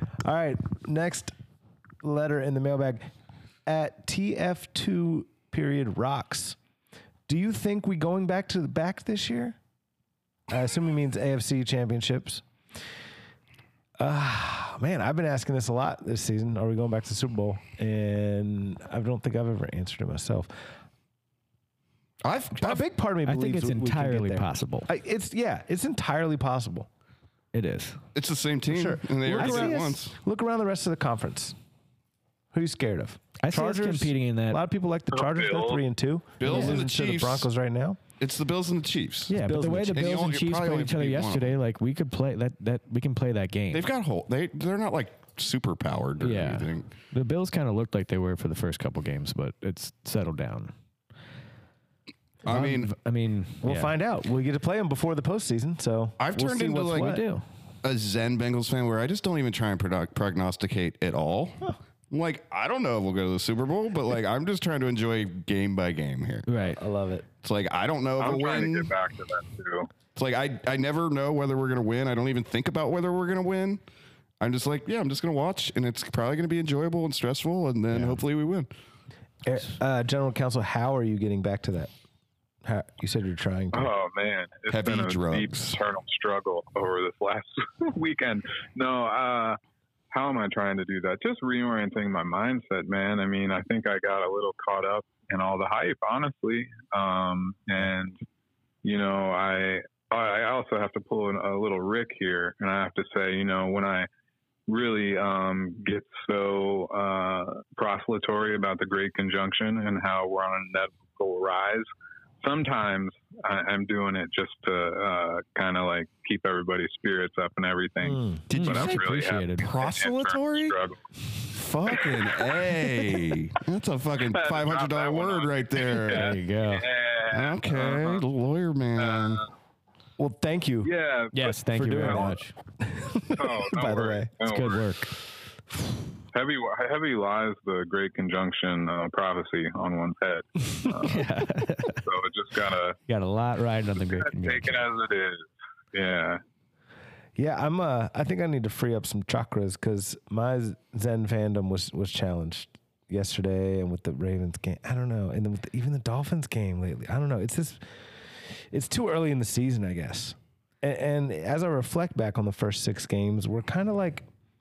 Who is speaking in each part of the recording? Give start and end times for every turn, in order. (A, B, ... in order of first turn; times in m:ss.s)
0:00.2-0:01.3 A
0:02.0-0:03.1 A
0:03.7-0:06.6 A
0:07.3-0:09.6 A
0:10.5-0:12.4 A
0:14.0-0:20.5 A
0:22.2-0:22.8 B
0:22.5-0:26.9 A
0:23.2-0:24.9 C
0:27.5-0:28.0 C
0:28.2-0:30.2 B
0:28.7-0:31.6 A
0:29.4-0:29.7 C
0:32.5-0:38.0 A
0:33.4-0:34.6 C
0:35.1-0:35.8 D
0:36.4-0:37.5 B
0:36.5-0:36.8 C
0:38.2-0:41.6 B
0:39.3-0:43.9 C
0:39.4-0:40.1 A
0:43.7-0:46.9 B
0:46.2-0:50.7 C
0:52.4-0:52.9 B
0:52.5-0:53.9 C
0:53.6-0:57.2 A
0:56.2-0:57.2 B
0:57.0-0:57.4 C
0:57.8-1:06.5 B
1:06.5-1:06.8 C
1:06.8-1:07.2 A
1:07.4-1:08.9 B
1:08.2-1:09.9 D
1:10.2-1:13.8 B
1:14.4-1:18.7 B
1:19.4-1:21.9 A
1:22.6-1:23.9 A
1:23.7-1:29.6 D
1:24.7-1:25.8 B
1:30.1-1:38.2 D
1:38.8-1:44.1 D
1:44.7-1:51.9 D
1:52.4-2:01.0 D
1:58.0-1:58.4 A
1:58.5-1:59.0 B
1:58.5-1:59.7 C
1:59.6-2:00.8 B
2:01.5-2:06.4 B
2:04.3-2:08.2 D
2:06.1-2:06.9 C
2:07.3-2:09.4 B
2:09.0-2:09.4 D
2:10.2-2:10.9 A
2:10.8-2:12.3 D
2:11.3-2:12.5 C
2:11.7-2:14.3 A
2:13.4-2:14.9 D
2:14.4-2:15.1 C
2:16.3-2:21.3 D
2:21.0-2:22.0 C
2:22.0-2:23.0 D
2:23.1-2:24.8 C
2:24.0-2:26.4 D
2:27.4-2:37.8 A
2:38.4-2:44.3 A